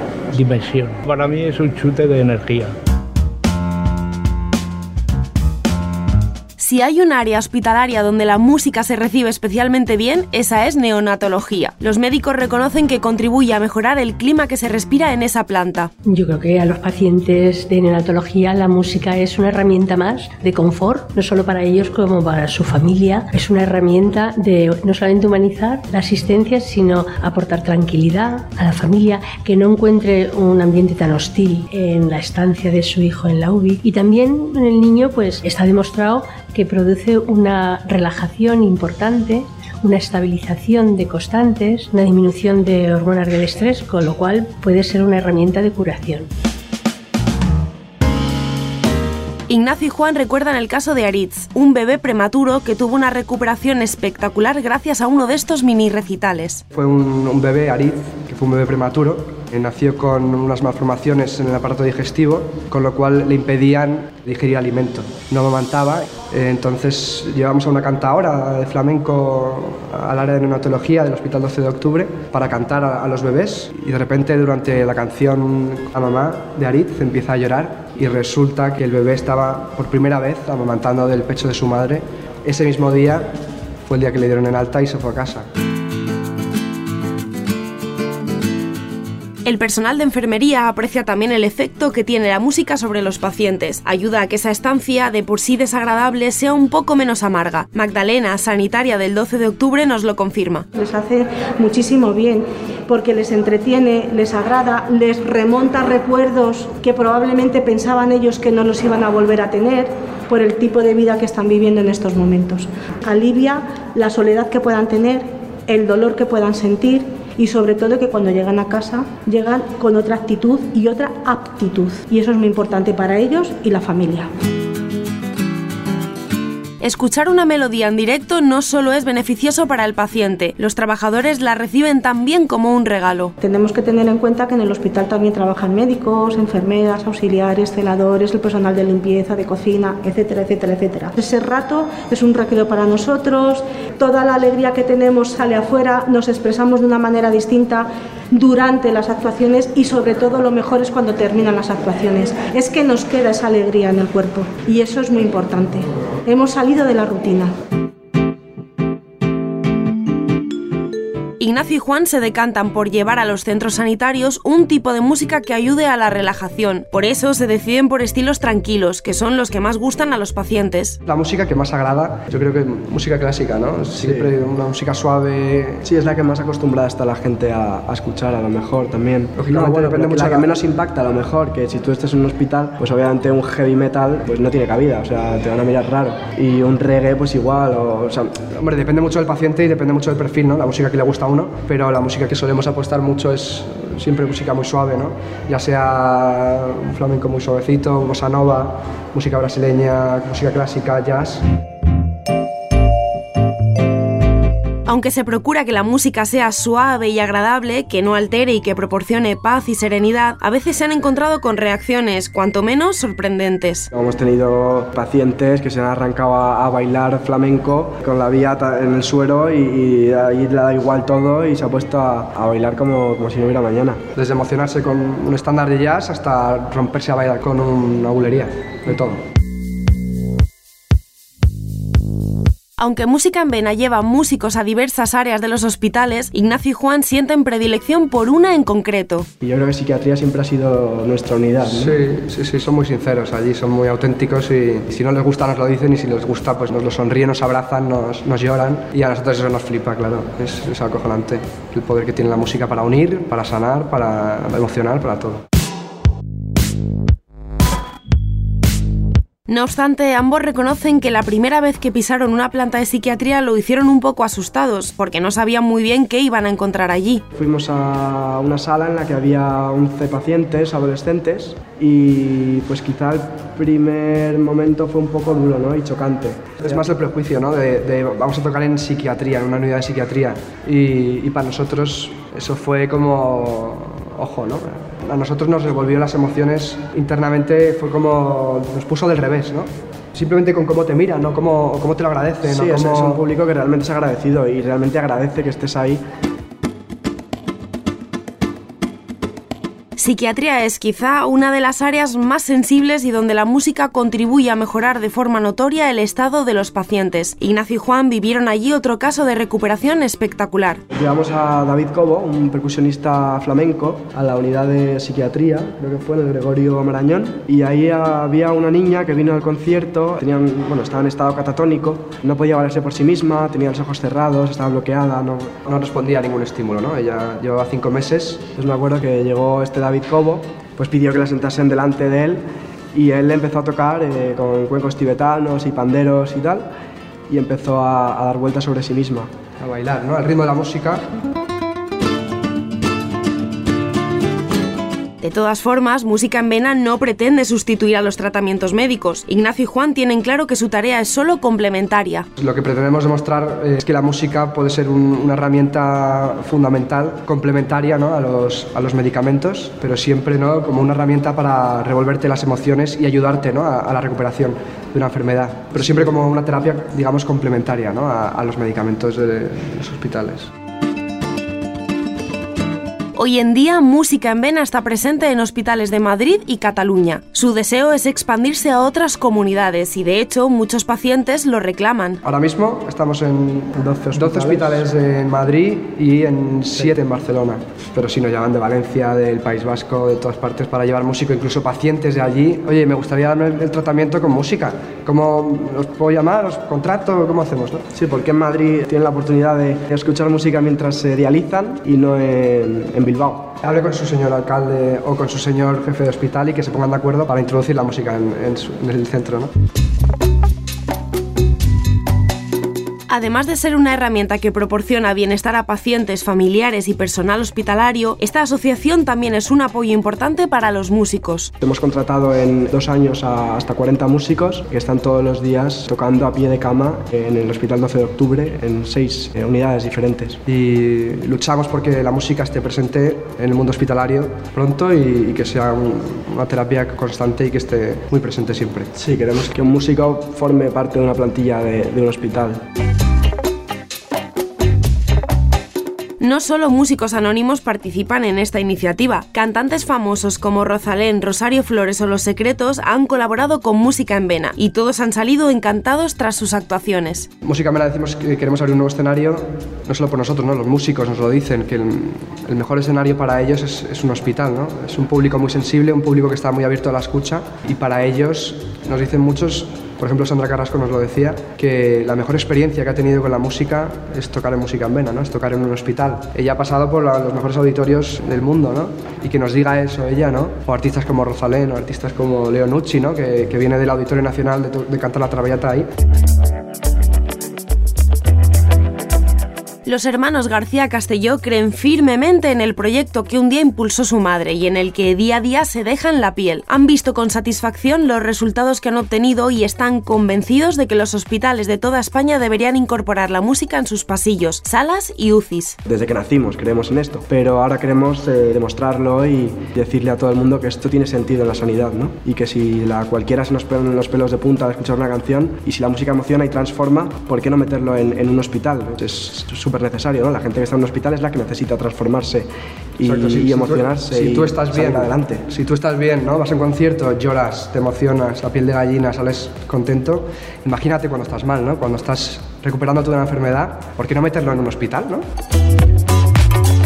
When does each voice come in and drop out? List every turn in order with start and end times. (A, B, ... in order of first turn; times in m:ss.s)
0:00.3-0:02.7 A
0:06.6-0:15.9 B
0:16.1-0:46.3 C
0:49.5-0:56.6 B
0:56.7-1:23.3 D
1:23.9-1:25.5 D
1:29.4-1:40.6 B
1:40.7-2:04.3 E
2:06.8-2:13.3 B
2:13.4-2:37.5 E
2:41.4-2:51.0 B
2:51.0-2:55.8 D
2:53.9-2:54.3 F
2:55.8-3:08.3 F
2:59.4-3:00.6 D
3:08.6-3:21.4 D
3:24.8-3:33.9 B
3:33.9-3:44.0 F
3:44.2-3:49.2 D
3:52.8-3:59.3 B
3:59.4-4:01.9 F
4:01.6-4:15.4 D
4:19.5-4:27.2 B
4:27.3-4:36.8 F
4:36.6-4:53.2 D
4:52.4-4:56.0 F
5:00.0-5:10.8 B
5:10.9-5:25.6 F
5:25.7-5:28.4 D
5:28.5-5:32.4 F
5:32.9-5:36.7 F
5:37.3-5:39.3 F
5:39.6-5:41.1 D
5:45.2-5:52.3 B
5:52.4-6:10.5 D
6:13.2-6:22.2 B
6:22.2-6:37.8 D
6:23.8-6:24.8 F
6:37.9-6:43.5 F
6:43.6-6:49.5 D
6:53.1-7:01.5 B
7:01.6-7:10.4 F
7:10.4-7:18.9 D
7:19.0-7:22.6 F
7:26.2-7:37.3 B
7:37.4-8:05.9 D
8:09.8-8:25.8 B
8:25.8-8:45.5 F
8:43.0-8:55.2 D